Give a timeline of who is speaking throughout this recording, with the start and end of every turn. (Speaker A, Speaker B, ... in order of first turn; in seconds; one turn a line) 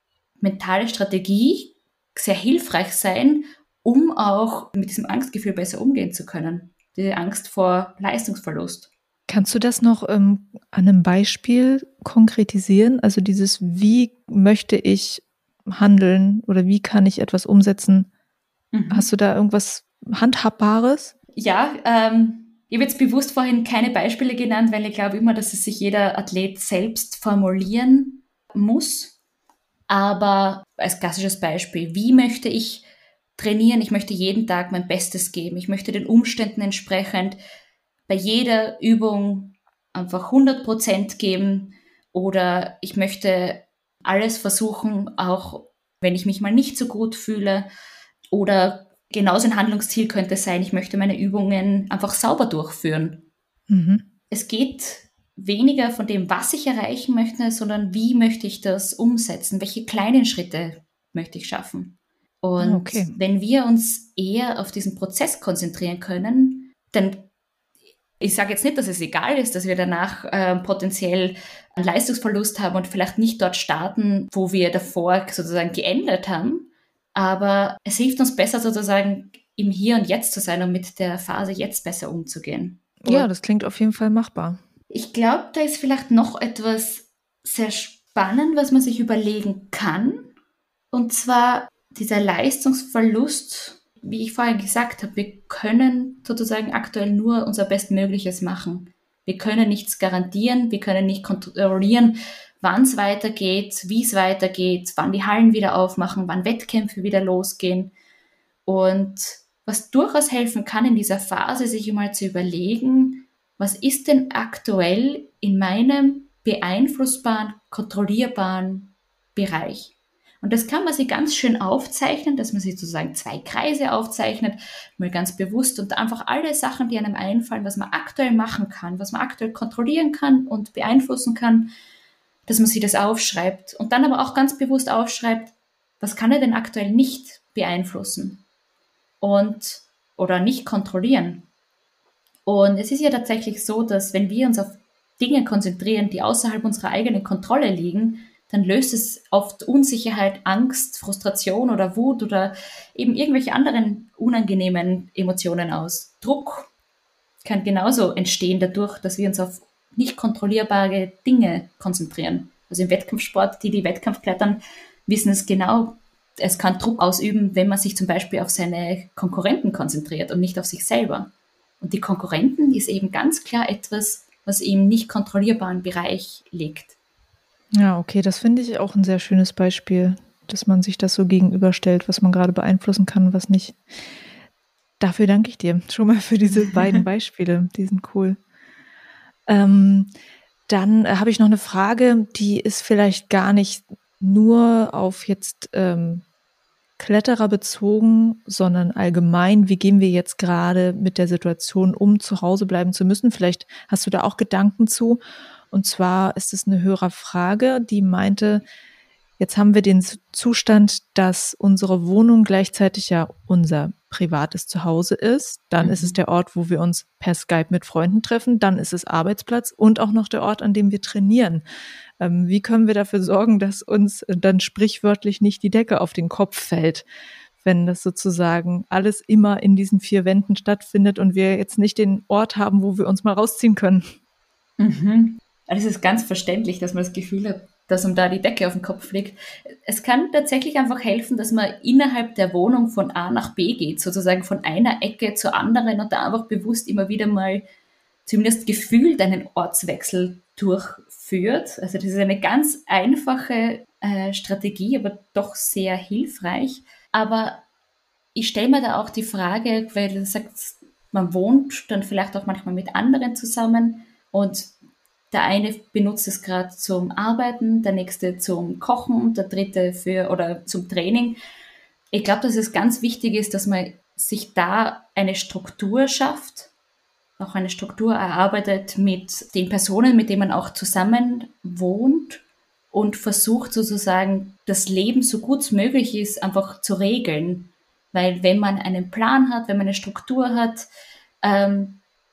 Speaker A: 0.4-8.9
Speaker B: 9.3-18.1
Speaker A: 18.7-19.1
Speaker B: 18.9-21.1
Speaker A: 21.4-29.1
Speaker A: 29.9-37.4
Speaker A: 38.1-47.7
Speaker A: 48.3-53.2
Speaker B: 53.7-54.0
Speaker A: 54.3-67.2
Speaker B: 62.6-63.1
Speaker A: 68.2-83.3
Speaker B: 83.0-84.6
Speaker A: 84.9-90.3
Speaker A: 90.9-107.9
Speaker A: 108.7-131.7
Speaker A: 132.5-138.4
Speaker A: 139.2-141.4
Speaker A: 142.4-156.7
Speaker A: 157.4-176.9
Speaker B: 177.8-183.8
Speaker B: 185.0-188.4
Speaker B: 189.5-190.1
Speaker B: 190.7-196.2
Speaker B: 197.0-205.2
Speaker B: 205.7-208.6
Speaker B: 209.4-221.6
Speaker A: 215.8-216.2
Speaker B: 222.2-227.0
Speaker B: 227.6-234.1
Speaker A: 234.8-247.6
Speaker A: 248.2-257.6
Speaker A: 258.3-264.7
Speaker A: 265.3-271.4
Speaker A: 272.1-276.7
Speaker A: 277.4-290.9
Speaker A: 291.4-292.0